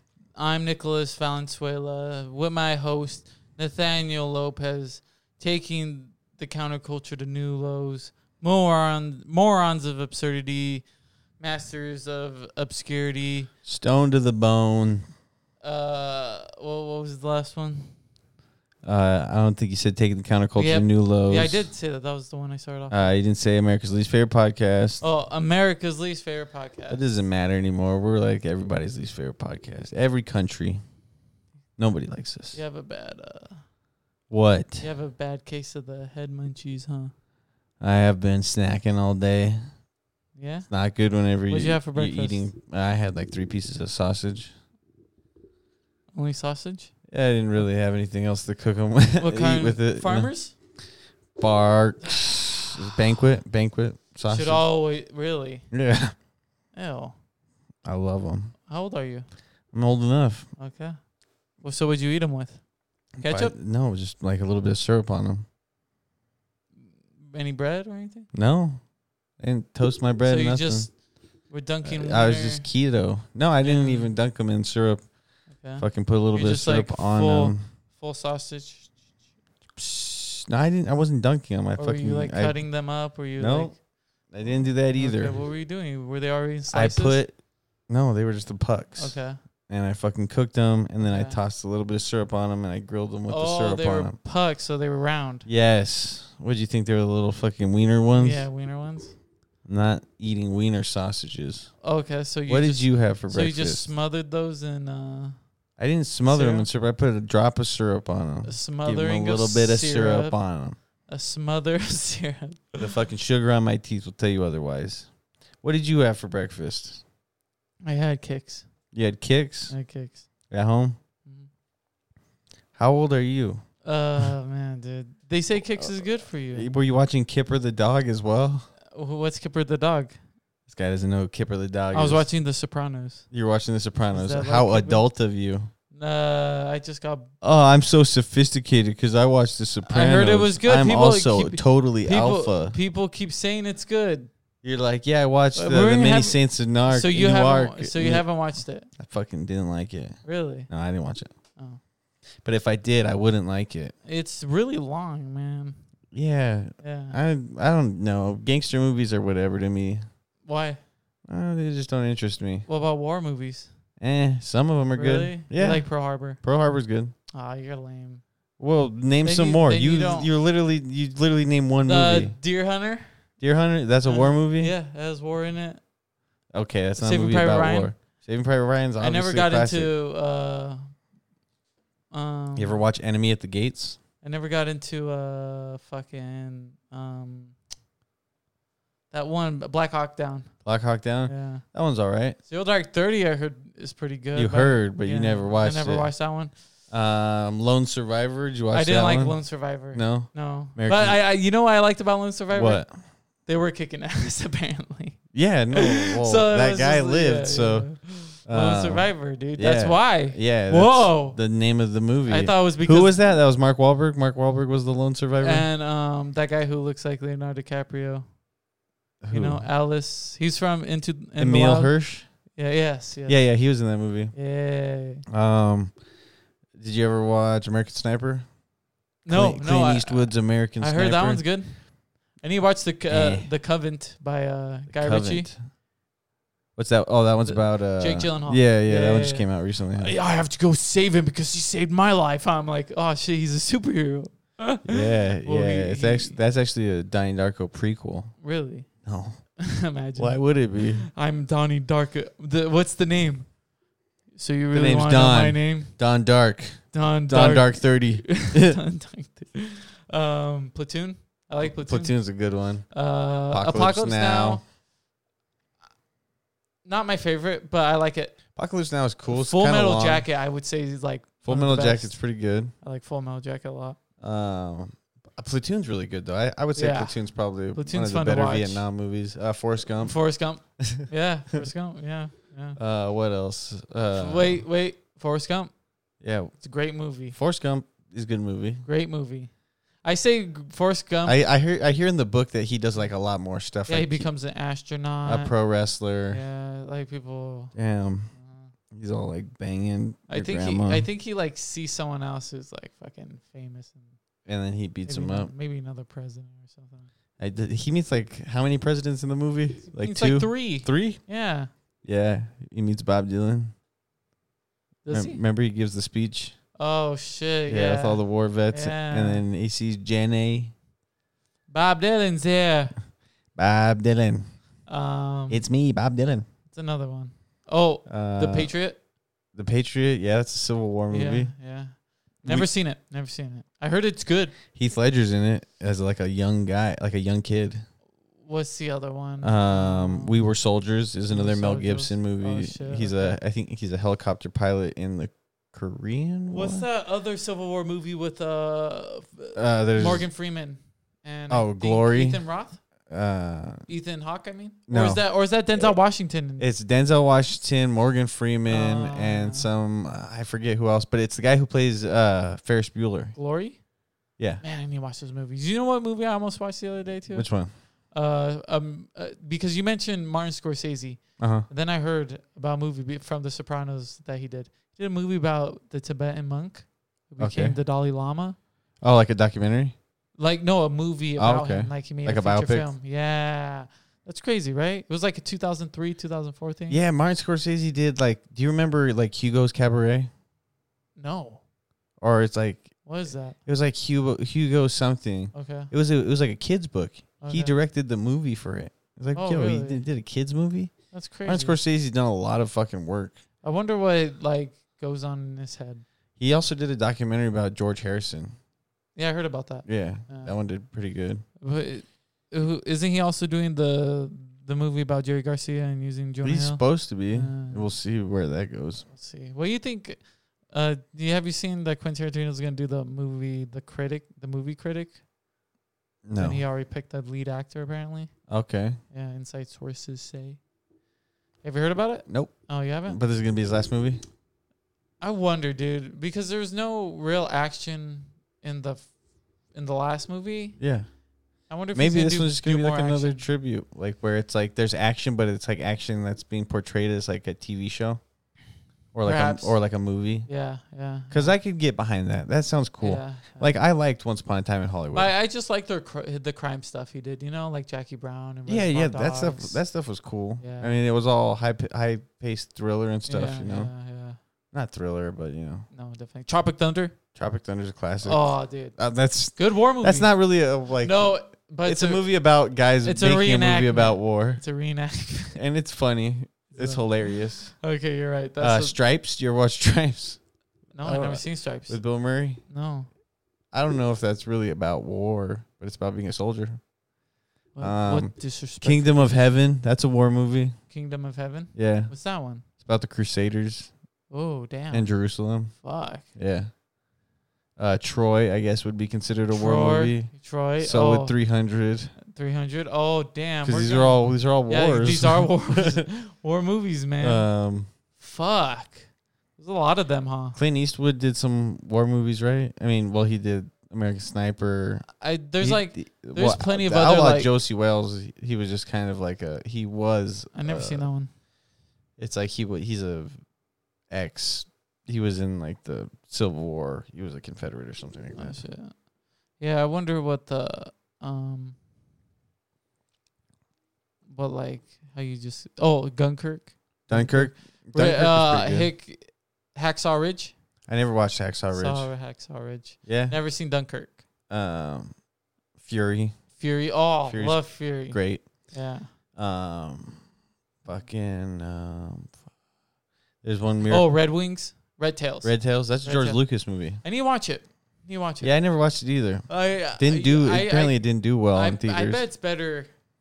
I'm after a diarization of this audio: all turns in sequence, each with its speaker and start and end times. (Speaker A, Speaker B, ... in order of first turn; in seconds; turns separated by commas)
Speaker A: 0.3-10.8, Speaker A: 11.4-13.5, Speaker B: 13.6-15.0, Speaker A: 15.6-17.9, Speaker B: 18.8-21.7, Speaker A: 20.5-23.1, Speaker B: 22.9-25.0, Speaker A: 25.0-27.0, Speaker B: 26.9-30.8, Speaker B: 31.8-32.6, Speaker A: 32.5-33.6, Speaker B: 34.3-34.9, Speaker A: 34.8-37.1, Speaker B: 37.8-39.6, Speaker A: 40.4-40.7, Speaker B: 40.7-44.5, Speaker A: 41.5-42.5, Speaker A: 46.1-46.9, Speaker B: 47.1-50.3, Speaker A: 49.2-50.5, Speaker B: 51.4-54.6, Speaker A: 54.3-55.7, Speaker B: 55.7-56.1, Speaker A: 56.7-57.1, Speaker B: 57.8-58.5, Speaker A: 58.7-59.2, Speaker B: 59.7-60.5, Speaker A: 60.6-61.0, Speaker A: 61.5-62.6, Speaker A: 63.2-63.5, Speaker B: 63.2-65.4, Speaker A: 67.2-68.3, Speaker B: 68.3-68.8, Speaker B: 69.4-70.9, Speaker A: 70.2-72.7, Speaker B: 71.8-75.0, Speaker A: 73.6-74.1, Speaker A: 75.5-78.9, Speaker B: 75.8-77.6, Speaker B: 79.8-82.7, Speaker A: 81.8-83.8, Speaker B: 83.3-83.8, Speaker B: 84.3-85.4, Speaker A: 84.9-87.2, Speaker B: 86.7-94.2, Speaker A: 89.0-89.4, Speaker A: 91.0-91.4, Speaker A: 93.3-95.5, Speaker B: 95.5-98.5, Speaker A: 98.1-99.1, Speaker B: 99.6-101.7, Speaker A: 101.8-105.4, Speaker B: 102.5-103.9, Speaker B: 105.8-110.8, Speaker A: 106.3-106.7, Speaker A: 108.4-110.4, Speaker A: 111.1-112.9, Speaker B: 112.8-115.1, Speaker B: 115.6-117.0, Speaker A: 117.8-118.7, Speaker B: 118.9-119.7, Speaker A: 119.7-120.2, Speaker B: 120.5-121.0, Speaker B: 122.7-123.6, Speaker A: 123.8-126.7, Speaker B: 126.5-128.7, Speaker A: 128.9-130.2, Speaker B: 130.7-132.3, Speaker A: 131.9-133.2, Speaker B: 133.3-135.7, Speaker A: 134.1-135.1, Speaker A: 135.9-137.3, Speaker B: 137.4-142.8, Speaker A: 139.8-144.3, Speaker B: 144.6-148.3, Speaker A: 145.5-148.9, Speaker B: 148.9-151.3, Speaker A: 150.2-150.7, Speaker B: 152.4-153.9, Speaker A: 154.0-155.8, Speaker B: 156.1-160.0, Speaker A: 156.8-157.2, Speaker A: 160.4-160.8, Speaker B: 161.3-162.7, Speaker A: 162.7-163.7, Speaker B: 164.0-167.1, Speaker A: 164.9-166.4, Speaker A: 167.3-168.2, Speaker B: 168.6-172.4, Speaker A: 169.2-170.3, Speaker A: 171.8-173.2, Speaker B: 173.4-174.7, Speaker A: 174.0-175.8, Speaker B: 176.5-179.9, Speaker A: 176.9-177.9, Speaker A: 179.0-180.9, Speaker A: 182.1-182.8, Speaker B: 182.6-184.0, Speaker A: 184.2-187.6, Speaker A: 189.1-190.5, Speaker B: 190.6-192.4, Speaker A: 191.3-191.6, Speaker A: 192.4-196.5, Speaker B: 194.3-196.1, Speaker B: 196.9-201.2, Speaker A: 198.7-202.9, Speaker B: 202.5-202.9, Speaker A: 203.4-205.2, Speaker B: 205.3-215.7, Speaker A: 205.7-211.4, Speaker A: 212.3-213.2, Speaker A: 215.4-218.2, Speaker B: 219.2-219.6, Speaker A: 219.3-221.9, Speaker B: 221.4-222.3, Speaker A: 222.5-223.5, Speaker B: 223.3-224.3, Speaker A: 224.3-225.2, Speaker B: 225.3-226.0, Speaker B: 226.7-228.5, Speaker A: 229.2-235.5, Speaker B: 229.3-231.4, Speaker B: 233.1-233.5, Speaker B: 234.9-235.6, Speaker B: 236.8-240.1, Speaker A: 237.4-246.4, Speaker B: 244.8-248.3, Speaker A: 248.4-248.9, Speaker B: 249.0-249.4, Speaker A: 249.6-253.5, Speaker B: 250.2-251.1, Speaker A: 254.3-256.0, Speaker B: 254.7-258.8, Speaker A: 256.9-262.4, Speaker B: 261.6-264.6, Speaker A: 262.9-264.6, Speaker A: 266.8-268.4, Speaker B: 268.6-270.3, Speaker A: 269.3-272.2, Speaker B: 271.4-272.7, Speaker A: 272.8-274.0, Speaker B: 274.2-280.2, Speaker A: 276.7-277.2, Speaker A: 277.7-278.9, Speaker A: 279.9-282.8, Speaker B: 280.8-281.1, Speaker B: 282.8-284.6, Speaker A: 284.1-285.7, Speaker B: 286.2-286.6, Speaker A: 286.6-287.4, Speaker B: 287.3-288.8, Speaker A: 288.8-289.5, Speaker A: 290.0-291.4, Speaker B: 291.2-294.3, Speaker A: 293.9-295.5, Speaker B: 295.2-296.4, Speaker A: 296.3-297.7, Speaker B: 297.7-298.3, Speaker A: 298.3-298.7, Speaker B: 298.9-301.1, Speaker A: 300.3-304.1, Speaker B: 304.4-305.5, Speaker A: 305.1-307.1, Speaker B: 307.4-311.2, Speaker A: 309.9-311.7, Speaker B: 312.0-313.7, Speaker A: 315.0-315.4, Speaker B: 315.1-316.6, Speaker A: 316.8-319.4, Speaker B: 317.7-320.7, Speaker A: 321.7-322.9, Speaker B: 323.5-324.5, Speaker A: 324.9-325.6, Speaker B: 325.5-326.4, Speaker A: 326.7-329.0, Speaker B: 328.1-328.7, Speaker B: 329.5-331.5, Speaker A: 331.1-334.6, Speaker B: 334.7-337.8, Speaker A: 338.4-340.4, Speaker B: 339.4-346.9, Speaker A: 341.3-343.4, Speaker A: 346.5-352.8, Speaker B: 349.5-350.3, Speaker B: 351.5-352.4, Speaker B: 353.1-353.8, Speaker A: 353.9-356.7, Speaker B: 354.9-355.2, Speaker B: 356.6-363.3, Speaker A: 358.7-359.7, Speaker A: 363.3-363.8, Speaker A: 364.6-367.5, Speaker B: 367.3-367.7, Speaker A: 368.1-378.6, Speaker B: 371.4-371.7, Speaker B: 377.4-377.8, Speaker B: 379.0-379.9, Speaker A: 380.4-387.0, Speaker B: 381.4-382.9, Speaker B: 386.9-390.3, Speaker A: 391.2-391.6, Speaker B: 392.2-393.1, Speaker A: 393.0-393.6, Speaker B: 393.6-403.4, Speaker A: 395.5-395.9, Speaker A: 397.4-397.7, Speaker A: 399.3-400.0, Speaker A: 401.1-401.8, Speaker A: 403.6-406.0, Speaker B: 406.4-408.5, Speaker A: 409.1-410.6, Speaker B: 409.8-411.4, Speaker A: 411.6-417.9, Speaker B: 416.4-419.1, Speaker A: 419.1-425.2, Speaker B: 426.2-426.6, Speaker A: 426.4-428.3, Speaker B: 428.5-429.0, Speaker A: 429.1-430.6, Speaker A: 431.6-433.2, Speaker B: 432.2-434.2, Speaker A: 435.2-439.1, Speaker A: 439.7-440.8, Speaker B: 440.8-441.1, Speaker A: 441.7-443.4, Speaker B: 441.9-448.2, Speaker B: 449.1-450.5, Speaker A: 449.2-449.7, Speaker A: 450.4-451.5, Speaker B: 451.3-455.3, Speaker A: 453.0-453.7, Speaker A: 455.1-459.8, Speaker B: 458.7-463.9, Speaker A: 460.6-460.9, Speaker A: 463.3-464.4, Speaker B: 464.7-465.9, Speaker A: 465.9-467.1, Speaker B: 467.3-474.6, Speaker A: 468.2-469.0, Speaker A: 469.5-470.3, Speaker A: 470.9-472.3, Speaker A: 473.0-475.6, Speaker B: 475.5-477.8, Speaker A: 476.7-477.1, Speaker A: 477.7-478.9, Speaker B: 478.6-480.4, Speaker A: 480.9-482.0, Speaker B: 481.0-482.6, Speaker A: 482.7-483.1, Speaker B: 483.7-486.8, Speaker A: 487.7-489.4, Speaker B: 487.8-490.8, Speaker A: 490.9-492.6, Speaker B: 491.7-492.1, Speaker B: 492.6-493.9, Speaker A: 494.3-496.2, Speaker B: 494.9-495.8, Speaker B: 496.3-496.7, Speaker B: 497.8-502.1, Speaker A: 499.5-501.4, Speaker A: 502.2-507.5, Speaker B: 503.6-506.0, Speaker B: 507.2-507.9, Speaker A: 508.2-510.6, Speaker B: 510.6-515.1, Speaker A: 515.2-517.5, Speaker B: 515.6-521.1, Speaker A: 520.5-521.3, Speaker B: 522.2-523.4, Speaker B: 524.1-528.6, Speaker A: 528.3-529.0, Speaker A: 529.6-531.8, Speaker A: 534.3-540.5, Speaker B: 537.1-538.9, Speaker B: 540.9-542.1, Speaker A: 541.7-544.2, Speaker B: 543.0-543.4, Speaker B: 544.5-545.2, Speaker B: 545.8-546.5, Speaker A: 546.5-549.1, Speaker B: 547.2-548.7, Speaker B: 549.3-550.2, Speaker B: 550.8-552.3, Speaker B: 553.4-554.1, Speaker A: 553.9-556.5, Speaker B: 555.4-557.0, Speaker A: 557.0-558.5, Speaker B: 558.4-562.2, Speaker A: 559.5-562.9